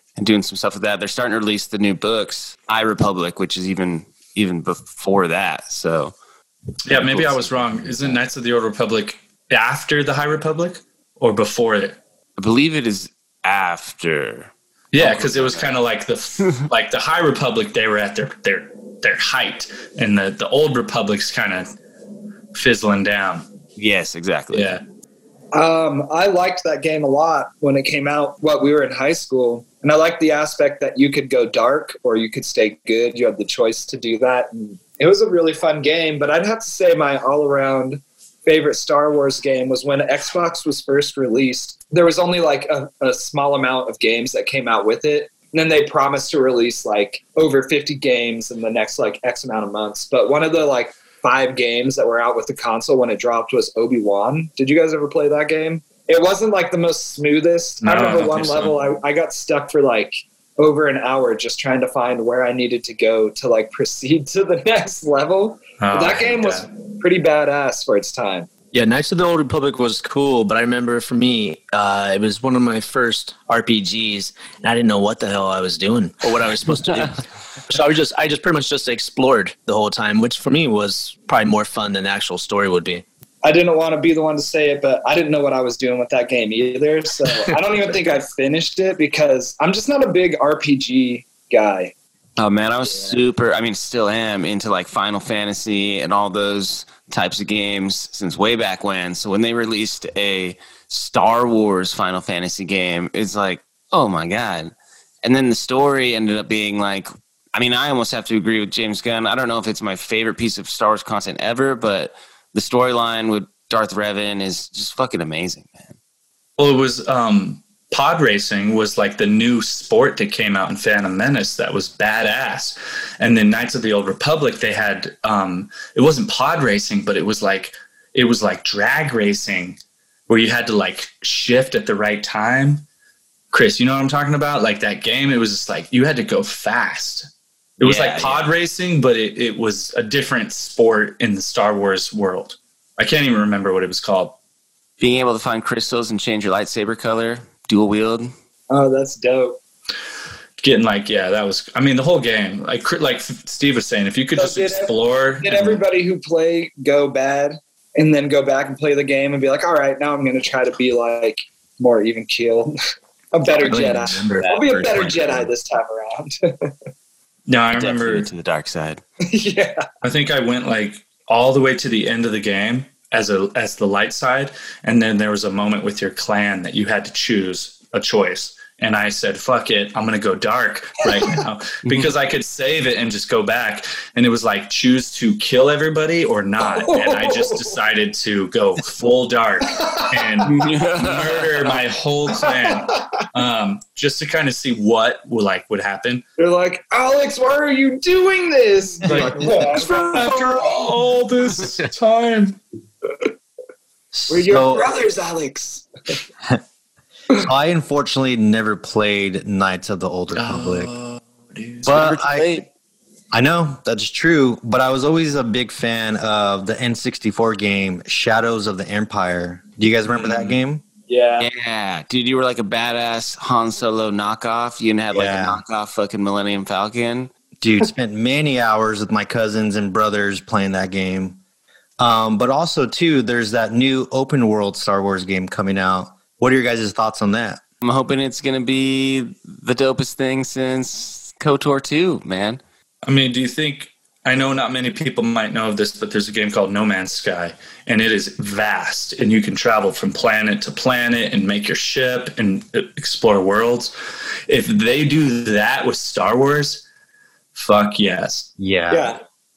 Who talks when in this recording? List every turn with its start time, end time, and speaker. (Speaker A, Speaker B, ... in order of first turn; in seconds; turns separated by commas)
Speaker A: 0.2-6.1, Speaker B: 6.9-12.0, Speaker A: 6.9-8.2, Speaker A: 12.4-15.7, Speaker B: 14.9-21.7, Speaker B: 22.5-23.5, Speaker A: 23.8-24.8, Speaker B: 24.5-24.8, Speaker C: 25.5-68.5, Speaker B: 57.8-58.9, Speaker B: 65.8-66.7, Speaker D: 68.7-83.0, Speaker C: 83.4-91.9, Speaker A: 92.4-115.9, Speaker B: 116.6-132.8, Speaker B: 133.5-144.4, Speaker A: 137.8-138.5, Speaker A: 145.0-148.3, Speaker C: 148.7-149.6, Speaker B: 150.6-155.8, Speaker C: 154.4-162.8, Speaker C: 163.3-166.7, Speaker D: 163.6-164.5, Speaker A: 164.4-165.5, Speaker B: 167.5-168.3, Speaker A: 167.7-169.0, Speaker C: 169.2-169.9, Speaker B: 170.0-196.2, Speaker A: 181.8-182.1, Speaker C: 186.6-187.7, Speaker C: 189.7-190.5, Speaker A: 190.4-191.8, Speaker C: 192.4-193.0, Speaker C: 196.4-200.9, Speaker B: 199.0-202.6, Speaker E: 204.1-204.9, Speaker C: 204.3-205.9, Speaker E: 207.4-210.9, Speaker B: 210.3-211.9, Speaker A: 211.8-212.7, Speaker E: 211.8-212.6, Speaker E: 213.3-220.8, Speaker A: 220.2-220.6, Speaker C: 221.1-221.5, Speaker A: 221.4-227.3, Speaker E: 225.1-225.6, Speaker E: 227.6-231.4, Speaker E: 232.0-237.6, Speaker A: 237.8-242.6, Speaker B: 243.0-253.9, Speaker B: 254.5-256.9, Speaker B: 257.6-258.5, Speaker E: 258.6-259.2, Speaker C: 258.9-259.2